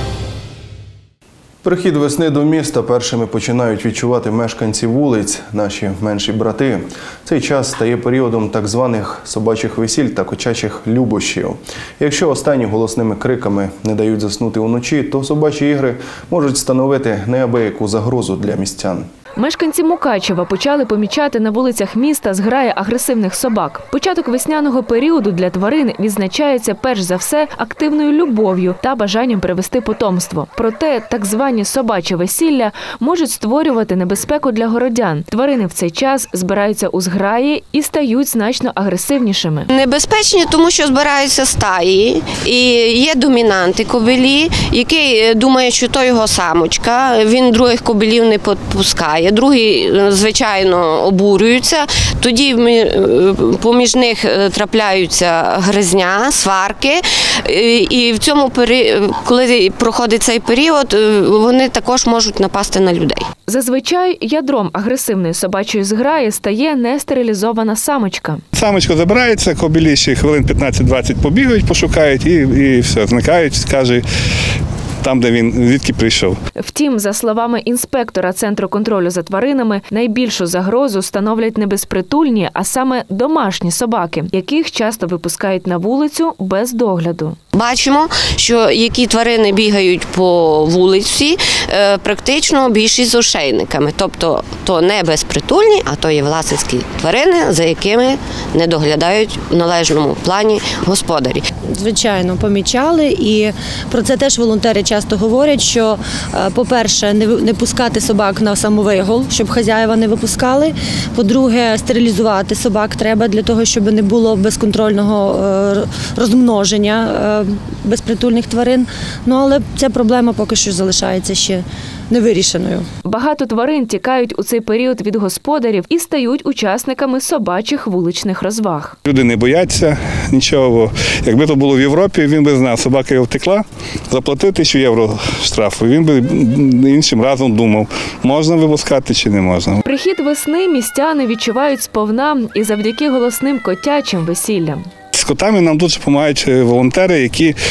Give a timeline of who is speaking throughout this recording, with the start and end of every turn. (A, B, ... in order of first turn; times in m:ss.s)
0:01.6-0:19.1 A
0:19.4-0:39.7 B
0:39.7-1:03.3 C
1:03.5-1:08.4 B
1:08.5-1:14.0 D
1:15.0-1:16.4 D
1:16.6-1:27.4 B
1:27.5-1:41.5 C
1:41.7-2:02.9 E
2:03.0-2:09.0 B
2:09.0-2:19.8 D
2:19.8-2:24.9 B
2:25.1-2:27.6 D